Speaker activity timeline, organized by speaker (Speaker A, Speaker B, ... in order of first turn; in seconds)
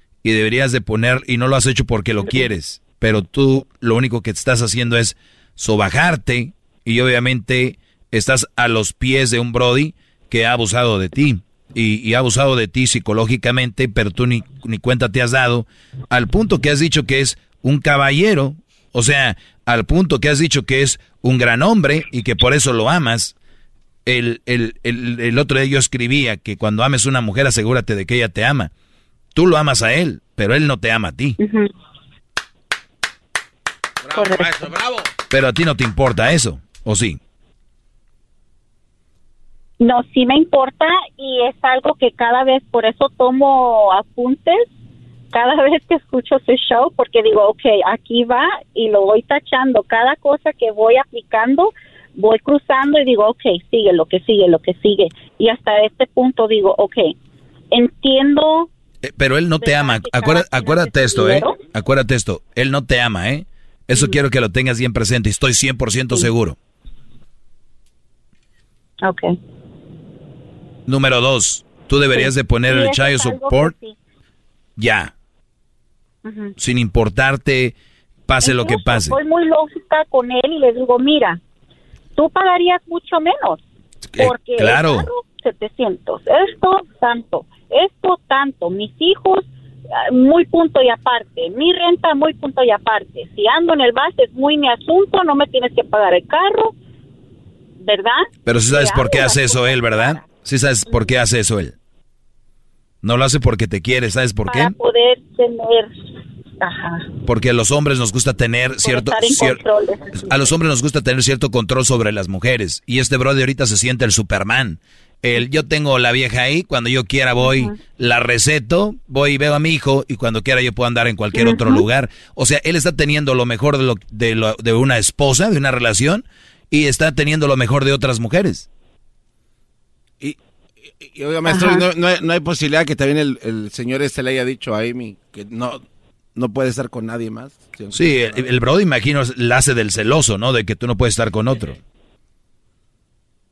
Speaker A: 0.2-23.4, 24.1-28.7, 29.3-31.4, 35.3-37.2, 59.0-66.6, 70.9-73.8, 74.8-75.1, 76.6-77.8, 78.3-79.2, 84.1-85.1, 98.5-101.8, 103.0-104.7, 107.2-109.6, 110.2-128.7, 137.9-141.8
Speaker B: 31.4-31.7, 34.2-34.5, 39.8-44.7, 45.3-57.1, 57.7-58.7, 59.6-61.6, 69.0-69.3, 72.2-74.0, 76.2-76.5, 78.4-81.4, 82.2-83.6, 84.2-89.5, 90.0-96.7, 97.8-100.2, 104.5-105.9, 106.6-107.1, 108.8-110.4, 117.4-117.8, 121.3-121.8, 131.5-131.8
Speaker C: 34.0-35.1, 131.0-135.8, 136.4-138.4